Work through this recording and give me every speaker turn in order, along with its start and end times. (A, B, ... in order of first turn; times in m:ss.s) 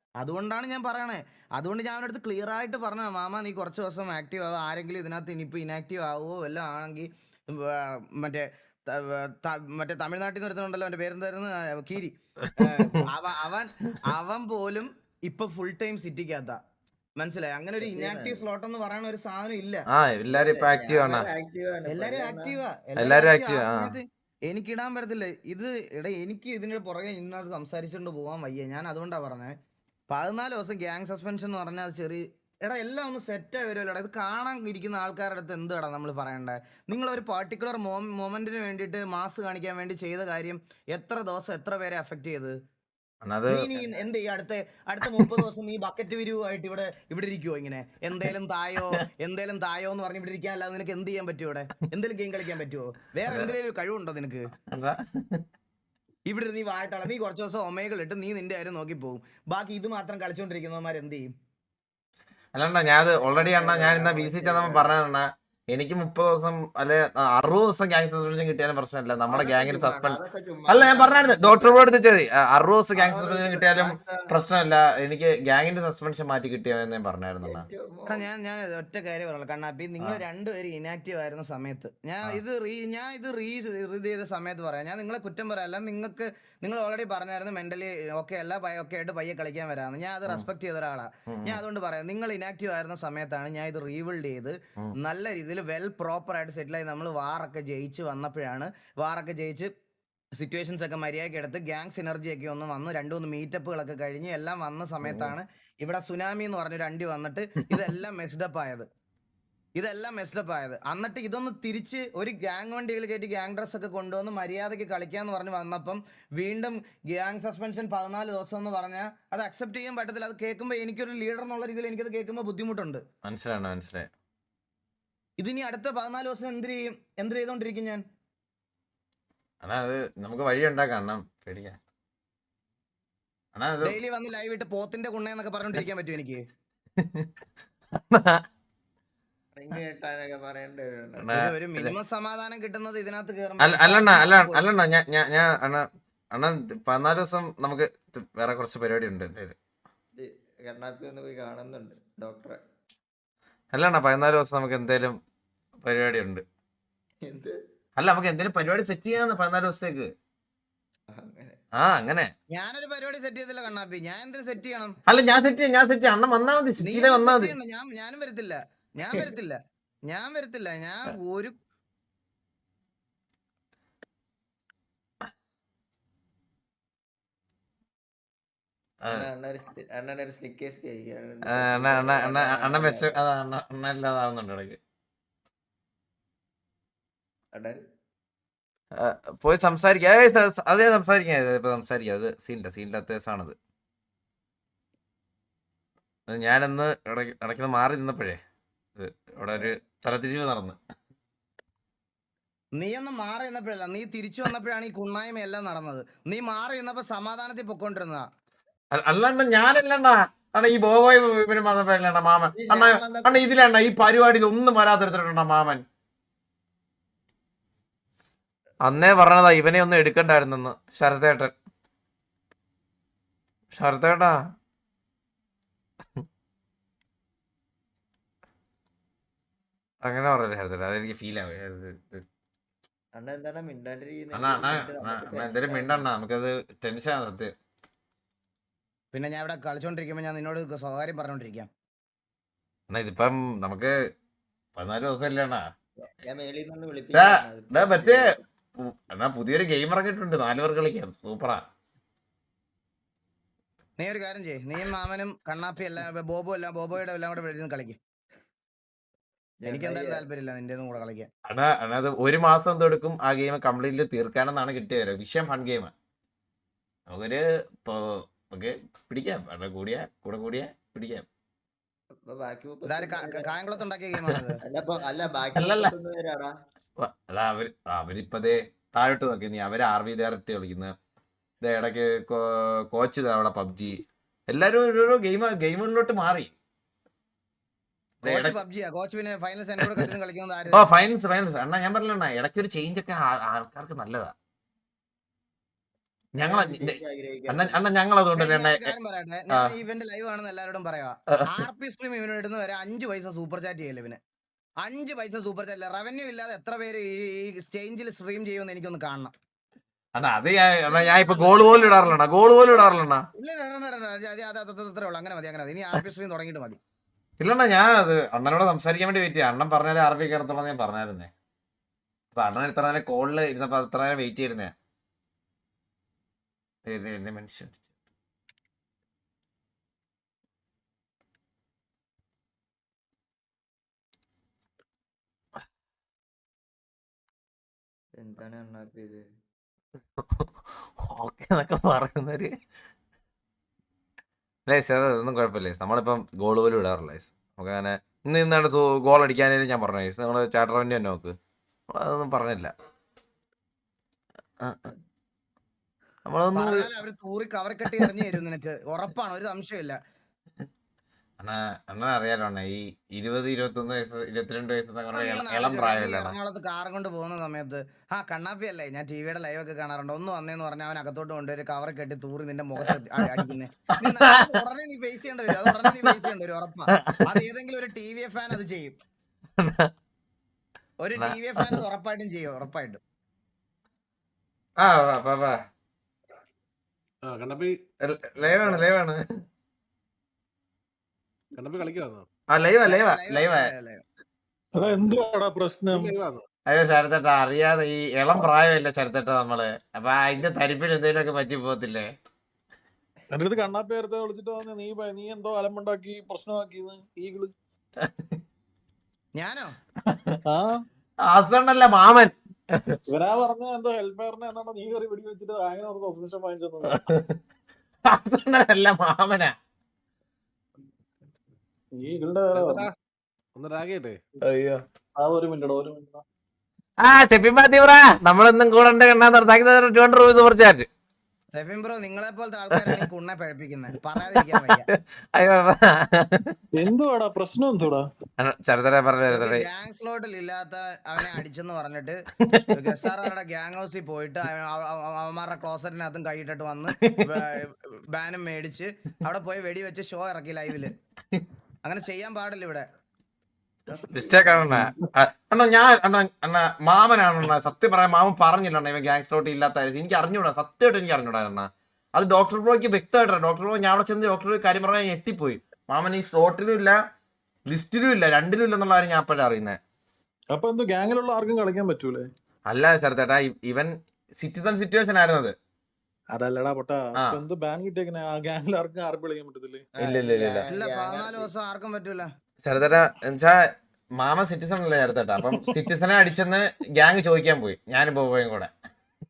0:00.2-0:16.6 A
0:17.2-0:19.8 A
0:17.8-0:18.4 B
0:19.9-0:21.3 C
0:20.3-0:22.6 B
0:21.9-0:29.6 A
0:23.0-0:24.0 C
0:30.1-0:42.6 A
0:43.2-0:43.6 C
0:43.5-0:54.4 A
0:53.3-0:53.5 C
0:54.7-0:55.4 C
0:56.3-1:01.3 A
1:02.6-1:17.6 C
1:03.2-1:04.9 B
1:09.3-1:11.9 B
1:13.0-1:14.3 B
1:17.4-1:18.3 B
1:18.1-1:39.7 A
1:31.3-1:31.6 C
1:40.4-1:48.9 A
1:45.0-1:45.4 C
1:49.8-2:03.0 A
2:03.2-2:04.1 C
2:05.4-2:08.0 A
2:09.6-2:11.8 C
2:13.6-2:14.0 C
2:13.8-2:16.4 A
2:17.0-2:17.3 C
2:18.0-2:18.4 C
2:19.6-2:21.2 B
2:21.2-2:21.9 C
2:21.3-2:24.6 A
2:23.6-2:29.6 C
2:30.2-2:32.6 B
2:33.7-2:35.2 C
2:35.8-2:36.4 C
2:37.2-2:37.6 B
2:38.0-2:40.1 C
2:41.1-2:41.6 B
2:41.8-2:42.3 C
2:42.5-2:45.0 A
2:45.1-2:47.5 C
2:46.8-2:49.6 A
2:50.1-2:51.6 A
2:59.1-3:03.1 B
3:01.5-3:04.8 C
3:07.5-3:07.8 B
3:09.0-3:13.6 C
3:16.3-3:18.4 C
3:19.0-3:20.8 C
3:22.8-3:28.3 A
3:28.9-3:35.8 C
3:32.6-3:33.4 B
3:38.8-3:41.5 C
3:43.7-3:44.4 C
3:50.0-3:52.2 C
3:53.2-3:56.1 B
3:54.3-3:57.5 C
3:59.1-4:01.7 A
4:02.9-4:04.0 C
4:04.8-4:05.7 C
4:06.0-4:08.4 B
4:07.1-4:08.2 C
4:08.8-4:11.6 C
4:14.0-4:18.0 A
4:19.6-4:20.3 B
4:19.7-4:21.3 A
4:21.5-4:25.9 C
4:27.1-4:31.3 C
4:32.2-4:33.6 B
4:32.9-4:34.6 A
4:34.6-4:36.5 B
4:35.6-4:35.9 C
4:37.0-4:40.9 C
4:41.6-4:46.5 C
4:48.2-4:48.6 C
4:48.2-4:50.9 A
4:50.7-4:54.3 C
4:56.4-4:57.0 C
4:56.4-4:57.8 B
4:57.5-4:58.9 C
4:58.4-5:04.2 A
5:04.8-5:09.3 A
5:10.2-5:13.2 C
5:10.9-5:16.8 A
5:17.4-5:21.3 C
5:22.3-5:24.7 C
5:26.9-5:27.8 C
5:38.2-5:39.2 B
5:40.2-5:40.5 C
5:41.0-5:42.5 C
5:44.7-5:51.4 C
5:51.9-5:52.7 C
5:56.3-5:56.9 C
5:56.5-6:00.0 A
5:57.9-5:58.2 C
6:01.4-6:06.4 C
6:05.1-6:19.0 A
6:12.8-6:13.4 C
6:14.1-6:14.4 C
6:15.6-6:16.2 C
6:17.0-6:17.2 C
6:19.6-6:19.9 C
6:21.0-6:23.0 A
6:21.2-6:21.8 C
6:24.8-6:25.6 C
6:27.2-6:27.7 D
6:28.0-6:29.2 C
6:28.4-6:28.8 D
6:31.5-6:32.3 D
6:32.5-6:33.7 C
6:32.8-6:34.0 A
6:34.8-6:36.2 E
6:35.9-6:36.5 D
6:36.7-6:42.1 C
6:43.3-6:47.5 E
6:48.0-6:48.4 C
6:49.4-6:49.7 A
6:50.1-6:50.4 C
6:50.5-6:50.8 E
6:51.2-6:53.0 C
6:53.1-6:57.0 E
6:56.9-6:57.4 C
6:58.1-6:59.5 C
7:02.0-7:02.9 E
7:02.5-7:02.9 D
7:03.6-7:04.2 D
7:04.4-7:04.8 C
7:05.2-7:06.2 E
7:07.0-7:10.9 C
7:11.6-7:14.9 A
7:12.7-7:13.1 C
7:14.3-7:16.6 C
7:16.7-7:18.1 E
7:18.4-7:19.7 C
7:19.3-7:22.2 A
7:22.7-7:30.9 A
7:31.8-7:32.8 A
7:33.9-7:34.8 B
7:34.1-7:47.0 C
7:47.7-7:49.8 C
7:50.5-7:52.3 E
7:52.7-7:55.6 C
7:56.3-7:59.9 E
8:00.0-8:01.5 B
8:00.0-8:00.7 C
8:00.7-8:02.3 A
8:02.6-8:03.6 C
8:04.2-8:08.7 C
8:05.4-8:05.8 E